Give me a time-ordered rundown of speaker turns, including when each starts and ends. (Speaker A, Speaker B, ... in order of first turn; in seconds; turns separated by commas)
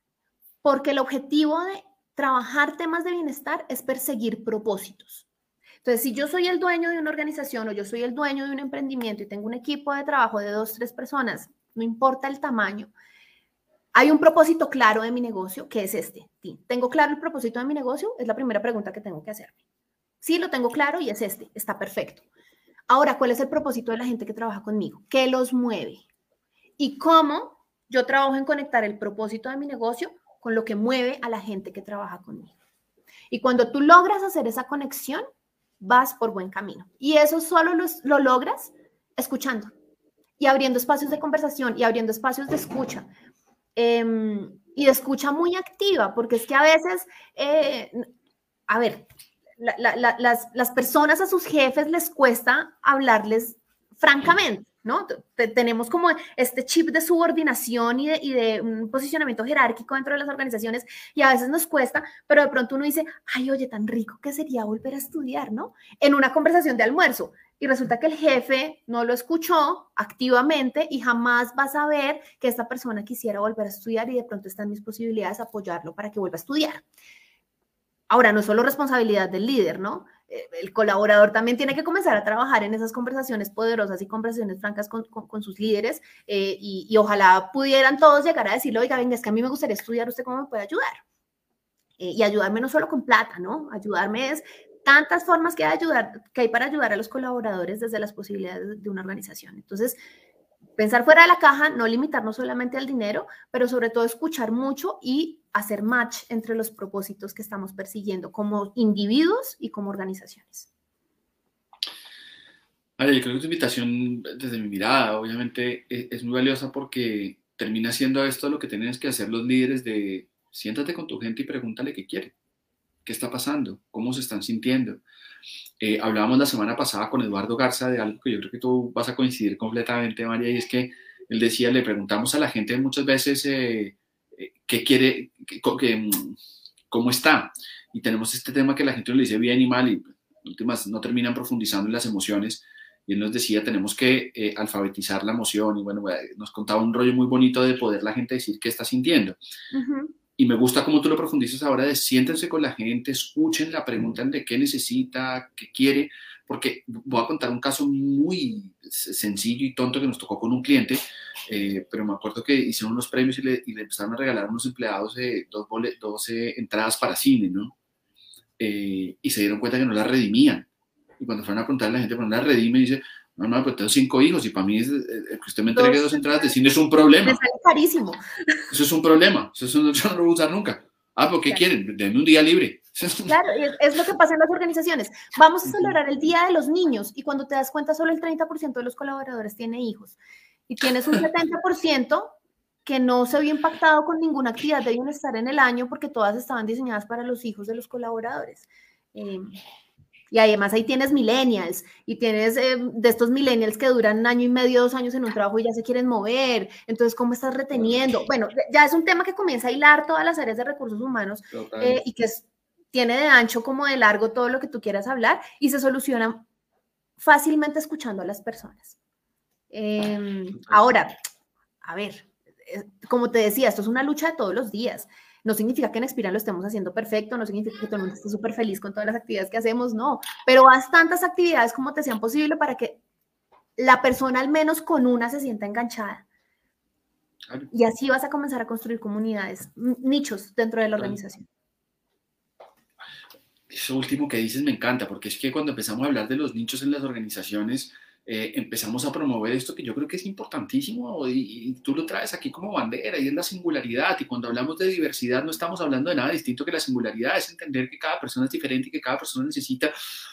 Speaker A: 0.6-5.2, Speaker A: 5.8-12.9, Speaker A: 13.9-19.5, Speaker A: 20.2-22.2, Speaker A: 22.9-26.0, Speaker A: 26.8-32.5, Speaker A: 33.3-35.2, Speaker A: 35.8-39.7, Speaker A: 40.4-43.1, Speaker A: 43.8-48.0, Speaker A: 48.7-49.1, Speaker A: 49.6-76.8, Speaker A: 78.1-91.0, Speaker A: 92.0-100.0, Speaker A: 100.8-110.7, Speaker B: 113.0-122.3, Speaker B: 123.0-125.0, Speaker B: 125.8-136.4, Speaker B: 136.9-149.3, Speaker A: 149.7-150.1, Speaker B: 150.4-167.7, Speaker B: 168.6-170.7, Speaker B: 171.2-177.4, Speaker A: 175.7-176.5, Speaker A: 177.2-178.2, Speaker B: 178.7-183.3, Speaker A: 183.3-190.2, Speaker B: 185.7-185.9, Speaker A: 190.7-192.3, Speaker A: 192.8-199.5, Speaker A: 200.3-216.4, Speaker B: 207.7-208.1, Speaker B: 211.5-212.0, Speaker A: 217.2-218.9, Speaker A: 219.7-221.2, Speaker B: 220.6-220.9, Speaker A: 221.8-233.0, Speaker A: 233.8-236.2, Speaker A: 237.7-241.5, Speaker B: 243.7-259.9